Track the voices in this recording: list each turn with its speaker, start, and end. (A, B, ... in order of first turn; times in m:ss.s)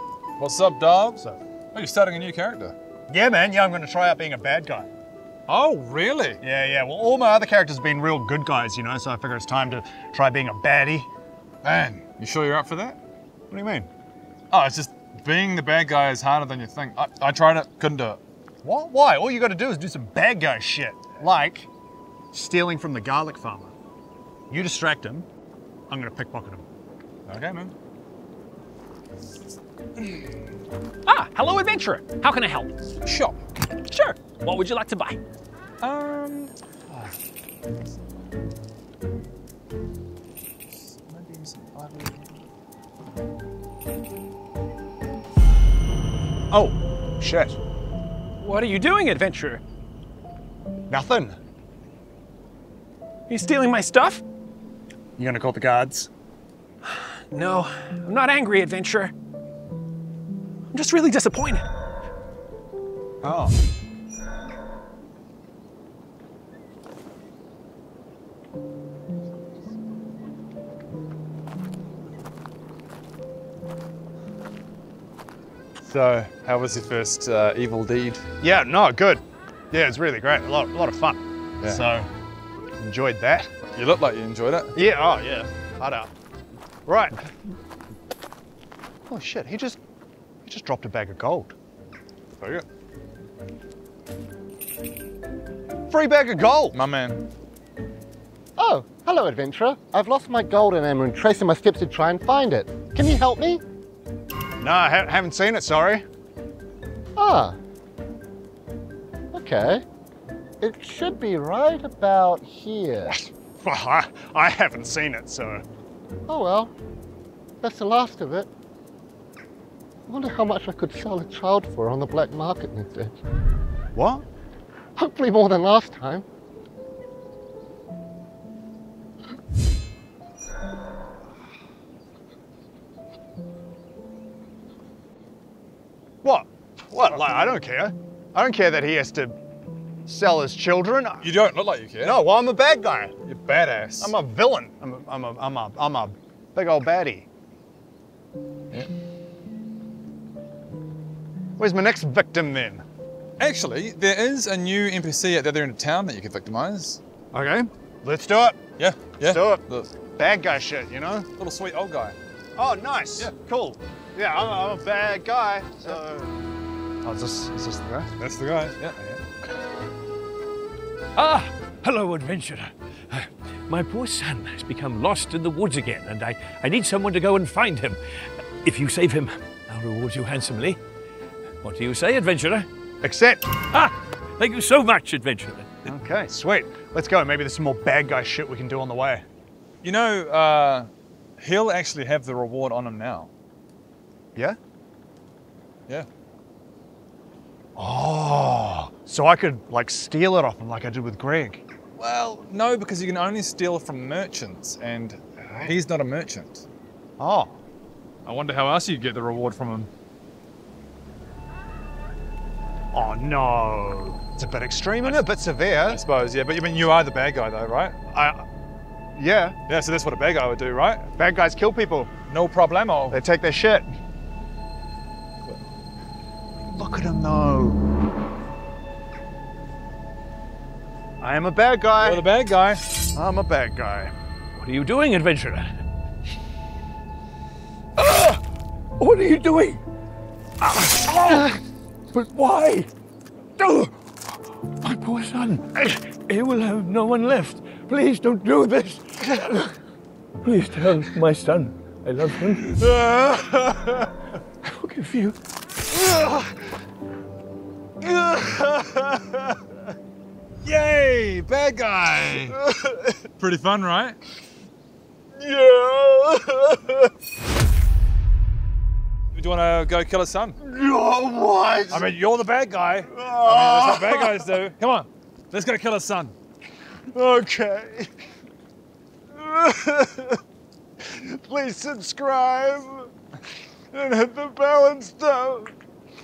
0:00.4-0:02.7 A
0:03.1-0:04.9 B
0:05.5-0:06.4 A
0:06.4-0:11.1 B
0:11.6-0:13.0 A
0:13.5-0:13.9 B
0:14.5-0:18.2 A
0:18.6-0:21.7 B
0:22.3-0:23.7 B
0:24.5-0:25.3 B
0:25.9-0:26.6 B
0:27.3-0:27.7 B
0:31.0-0:32.7 C
0:33.0-0:33.4 A
0:33.9-0:35.2 C
0:35.8-0:37.1 A
0:40.9-0:42.3 A
0:46.5-0:47.6 B
0:48.4-0:49.6 C
0:50.9-0:51.4 B
0:53.3-0:54.2 C
0:55.2-0:56.1 B
0:56.8-0:59.1 C
1:00.7-1:01.6 C
1:03.2-1:03.6 B
1:15.8-1:18.2 A
1:18.4-1:22.1 B
1:22.8-1:23.5 B
1:23.7-1:24.7 A
1:24.7-1:26.1 B
1:26.8-1:27.2 B
1:29.1-1:29.8 B
1:30.4-1:31.5 B
1:35.9-1:36.8 B
1:36.7-1:37.2 A
1:38.6-1:43.6 D
1:44.6-1:46.0 B
1:47.2-1:47.6 D
1:49.3-1:49.8 D
1:50.6-1:53.2 D
1:53.1-1:55.6 B
1:56.3-1:56.7 D
1:57.6-1:58.5 D
2:00.1-2:03.1 D
2:03.9-2:04.2 B
2:05.0-2:06.2 D
2:16.2-2:19.4 B
2:20.0-2:21.3 B
2:21.2-2:22.2 A
2:22.0-2:23.1 B
2:23.2-2:24.1 A
2:24.0-2:27.3 B
2:31.6-2:32.8 B
2:33.4-2:37.0 A
2:37.3-2:38.6 B
2:38.8-2:39.9 A
2:39.2-2:41.3 B
2:41.4-2:42.2 A
2:42.6-2:46.3 B
2:47.0-2:48.1 B
2:48.2-2:49.2 A
2:51.2-2:58.0 E
2:58.6-3:00.8 E
3:01.6-3:02.7 E
3:03.0-3:03.4 B
3:03.7-3:05.9 E
3:05.8-3:09.2 B
3:09.8-3:13.3 A
3:17.8-3:21.6 B
3:22.0-3:26.6 A
3:27.2-3:27.6 B
3:28.2-3:29.9 A
3:32.9-3:36.0 B
3:35.0-3:35.3 A
3:35.9-3:37.9 A
3:38.1-3:38.4 B
3:39.2-3:39.6 B
3:39.7-3:41.0 A
3:41.2-3:42.1 B
3:42.3-3:43.2 A
3:43.1-3:43.9 B
3:46.7-3:47.8 B
3:51.2-3:52.2 B
3:52.0-3:52.8 A
3:53.1-3:54.1 B
3:54.6-3:55.7 E
3:58.0-3:58.4 E
3:59.0-3:59.8 E
4:00.6-4:01.6 E
4:02.1-4:02.9 E
4:03.6-4:03.9 E
4:04.8-4:09.7 E
4:10.4-4:12.8 E
4:12.8-4:14.1 B
4:14.8-4:15.4 E
4:18.3-4:19.4 B
4:20.6-4:22.6 A
4:23.4-4:24.2 A
4:25.4-4:26.9 B
4:29.3-4:30.6 A
4:30.6-4:32.1 B
4:31.9-4:36.3 A
4:33.1-4:34.5 B
4:37.1-4:38.1 B
4:39.3-4:40.4 B
4:41.0-4:43.1 B
4:43.9-4:45.7 B